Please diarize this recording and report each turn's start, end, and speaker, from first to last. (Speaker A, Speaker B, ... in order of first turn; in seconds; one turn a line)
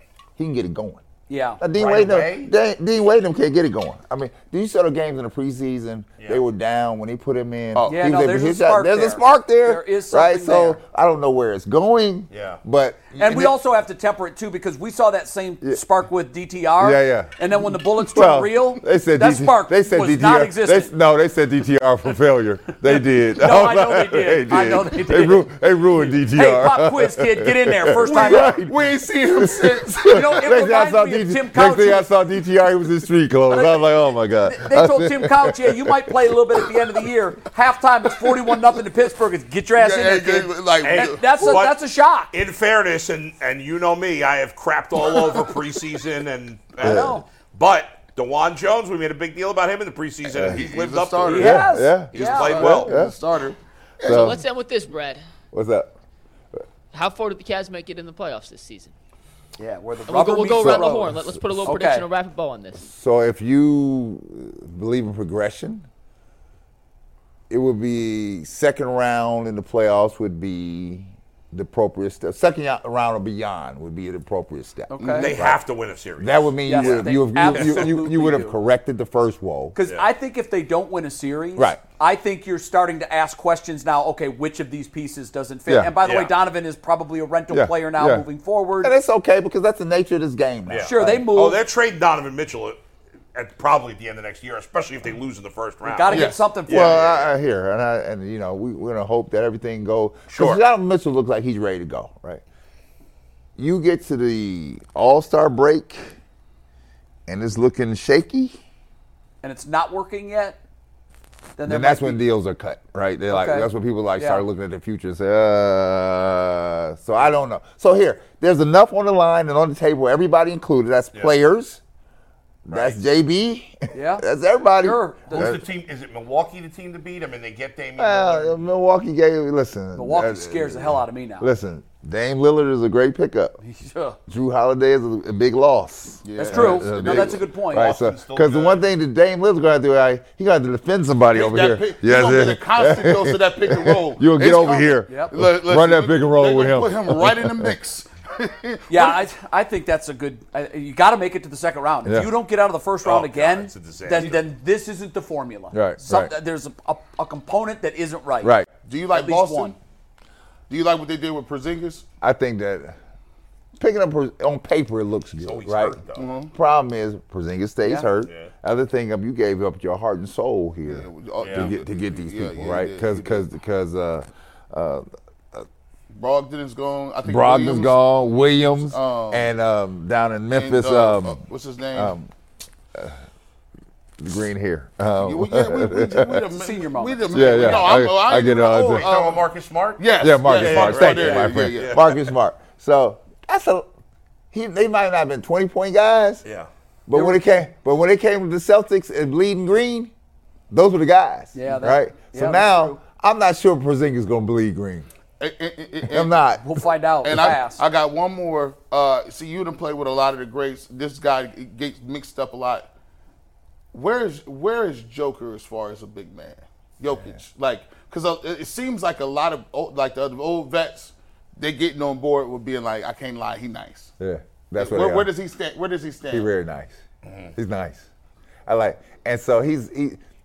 Speaker A: 0.4-1.0
Speaker B: 1.3-1.6
Speaker A: 1.6-13.6
Speaker C: 1.7-2.5
Speaker D: 7.8-8.1
Speaker B: 7.9-10.8
Speaker C: 12.3-12.6
Speaker B: 13.2-20.9
Speaker A: 16.8-17.3
Speaker A: 18.0-36.7
Speaker B: 22.8-28.6
Speaker D: 28.0-30.5
Speaker B: 30.1-32.1
Speaker B: 33.5-42.3
Speaker D: 38.2-38.8
Speaker D: 39.8-41.6
Speaker C: 40.8-41.8
Speaker C: 42.3-53.0
Speaker D: 45.1-45.5
Speaker B: 46.8-47.3
Speaker A: 46.8-47.2
Speaker D: 50.3-54.3
Speaker B: 51.3-52.8
Speaker A: 51.4-52.1
Speaker A: 52.6-53.1
Speaker E: 54.0-55.2
Speaker A: 54.1-54.4
Speaker A: 55.5-55.9
Speaker E: 56.9-58.9
Speaker B: 59.6-61.1
Speaker E: 60.1-62.9
Speaker A: 60.5-61.7
Speaker B: 61.6-62.1
Speaker A: 62.8-65.9
Speaker A: 67.5-75.6
Speaker B: 74.9-75.3
Speaker D: 75.0-75.4
Speaker C: 75.2-77.0
Speaker A: 76.2-79.8
Speaker B: 76.7-78.6
Speaker C: 77.5-78.0
Speaker B: 79.7-89.0
Speaker A: 81.6-81.8
Speaker A: 85.7-86.0
Speaker C: 86.0-86.3
Speaker A: 87.5-88.3
Speaker A: 88.8-91.3
Speaker C: 90.7-92.8
Speaker B: 90.8-91.6
Speaker C: 93.3-97.3
Speaker B: 95.8-97.0
Speaker D: 96.1-96.5
Speaker A: 96.7-102.4
Speaker C: 100.3-100.6
Speaker A: 103.6-106.1
Speaker A: 107.3-108.6
Speaker B: 109.4-110.6
Speaker B: 111.6-112.2
Speaker A: 111.7-121.8
Speaker B: 113.3-114.5
Speaker A: 122.7-125.6
Speaker C: 122.7-123.1
Speaker B: 123.9-124.3
Speaker B: 124.8-125.6
Speaker C: 125.3-128.7
Speaker A: 128.0-133.6
Speaker B: 129.9-131.5
Speaker B: 133.6-134.2
Speaker A: 134.3-147.8
Speaker D: 136.2-137.4
Speaker B: 136.4-138.0
Speaker C: 137.6-138.8
Speaker D: 141.3-149.2
Speaker B: 145.1-145.3
Speaker B: 148.9-158.6
Speaker A: 152.1-152.3
Speaker C: 153.0-154.4
Speaker A: 155.7-156.3
Speaker A: 158.4-158.7
Speaker D: 158.8-159.8
Speaker B: 159.1-159.8
Speaker D: 160.7-162.1
Speaker A: 162.2-163.0
Speaker A: 163.8-166.0
Speaker C: 165.4-166.3
Speaker D: 166.1-166.5
Speaker A: 166.6-175.7
Speaker C: 168.2-168.5
Speaker D: 170.9-173.4
Speaker C: 171.4-171.7
Speaker D: 176.1-179.6
Speaker A: 177.2-181.4
Speaker D: 180.5-182.2
Speaker A: 181.9-182.3
Speaker A: 184.2-186.5
Speaker D: 185.2-192.1
Speaker B: 186.5-188.0
Speaker A: 187.3-189.1
Speaker C: 188.4-192.3
Speaker A: 190.2-193.9
Speaker A: 194.5-196.4
Speaker C: 196.4-196.7
Speaker A: 197.1-200.1
Speaker B: 197.1-197.6
Speaker A: 200.7-205.1
Speaker B: 201.5-203.0
Speaker D: 205.4-206.4
Speaker A: 206.1-206.8
Speaker B: 206.6-207.8
Speaker D: 207.2-212.9
Speaker D: 213.9-224.1
Speaker A: 224.2-225.3
Speaker D: 224.8-226.5
Speaker A: 226.3-227.0
Speaker C: 227.3-227.5
Speaker A: 227.6-228.1
Speaker A: 228.7-230.2